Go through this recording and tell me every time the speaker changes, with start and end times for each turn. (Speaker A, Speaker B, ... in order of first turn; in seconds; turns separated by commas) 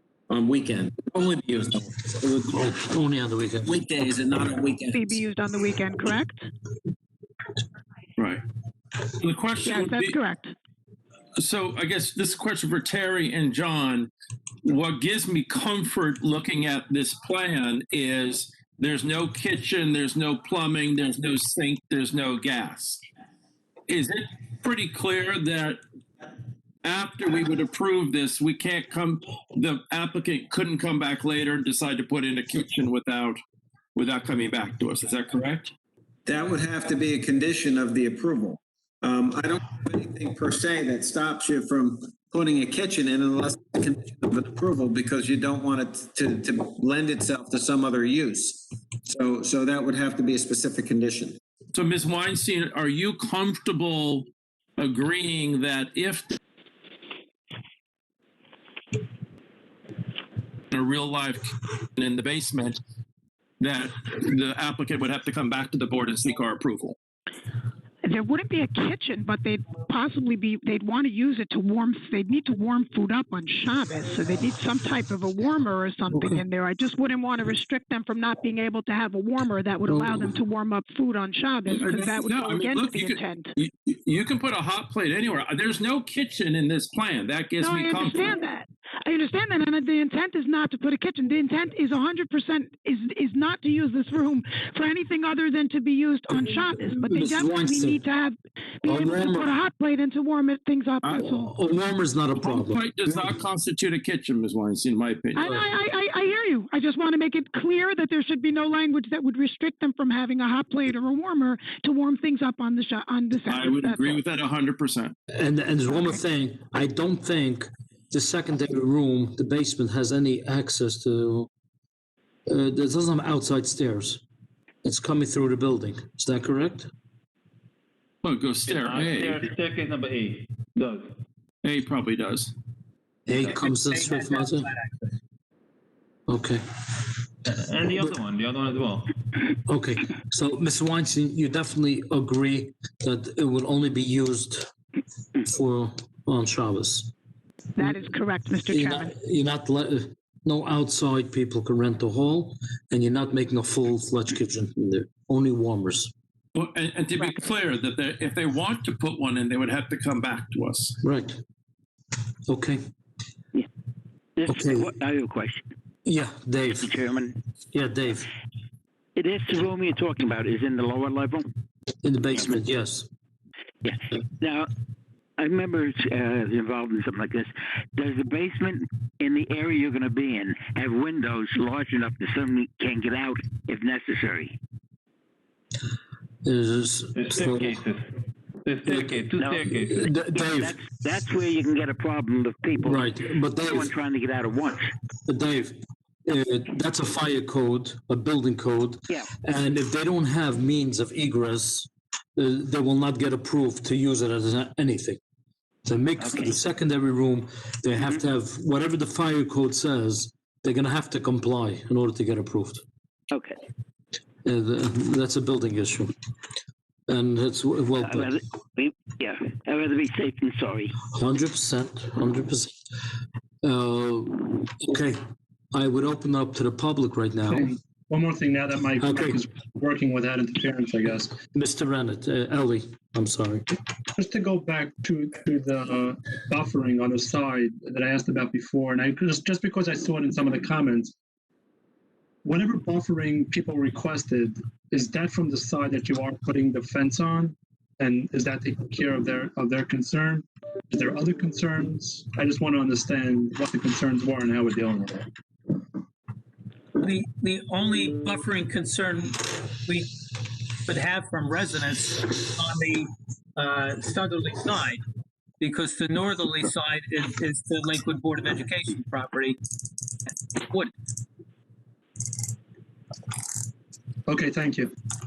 Speaker A: 0.3-2.8, Speaker B: 2.5-3.8, Speaker A: 3.6-5.2, Speaker C: 4.9-6.5, Speaker D: 9.1-10.2, Speaker C: 9.6-10.5, Speaker D: 11.4-14.1, Speaker D: 14.6-23.0, Speaker D: 23.9-25.8, Speaker D: 26.8-33.4, Speaker D: 34.0-35.7, Speaker A: 36.3-51.4, Speaker D: 51.7-54.3, Speaker D: 54.8-56.3, Speaker D: 60.7-62.8, Speaker D: 63.6-67.0, Speaker C: 68.0-83.5, Speaker B: 76.1-76.4, Speaker B: 79.9-80.3, Speaker D: 81.7-88.4, Speaker C: 87.6-101.5, Speaker B: 96.9-98.0, Speaker B: 98.8-99.6, Speaker B: 101.1-103.2, Speaker D: 102.4-105.6, Speaker C: 105.3-114.2, Speaker D: 113.5-115.1, Speaker B: 115.3-121.5, Speaker C: 115.9-116.1, Speaker B: 122.5-124.2, Speaker B: 124.8-126.9, Speaker D: 128.2-129.4, Speaker E: 128.6-131.2, Speaker D: 131.6-132.5, Speaker B: 133.3-134.7, Speaker F: 133.3-135.1, Speaker B: 136.3-136.6, Speaker E: 137.4-139.1, Speaker B: 139.7-144.7, Speaker B: 145.4-147.1, Speaker C: 147.8-149.1, Speaker B: 148.7-156.1, Speaker D: 156.5-161.0, Speaker B: 161.0-161.4, Speaker B: 162.5-162.8, Speaker B: 164.5-164.9, Speaker G: 165.0-165.5, Speaker B: 166.0-166.9, Speaker B: 167.7-168.3, Speaker G: 169.2-171.4, Speaker B: 172.0-173.1, Speaker G: 173.8-174.6, Speaker G: 175.4-177.5, Speaker G: 178.0-184.4, Speaker B: 186.4-187.8, Speaker E: 187.1-188.0, Speaker E: 188.6-190.0, Speaker B: 189.8-190.7, Speaker G: 190.1-190.6, Speaker G: 191.4-192.8, Speaker B: 192.8-193.9, Speaker G: 193.8-194.5, Speaker B: 195.2-205.2, Speaker B: 205.8-212.8, Speaker B: 214.4-216.1, Speaker B: 217.1-218.4, Speaker G: 219.0-220.7, Speaker B: 221.0-222.7, Speaker B: 223.6-225.2, Speaker B: 225.7-227.7, Speaker H: 227.5-231.3, Speaker B: 229.0-229.3, Speaker B: 231.5-233.7, Speaker H: 234.1-241.1, Speaker H: 242.4-255.2, Speaker F: 256.9-260.1, Speaker F: 260.8-265.0, Speaker F: 265.6-269.6, Speaker F: 270.5-270.9, Speaker H: 274.2-274.9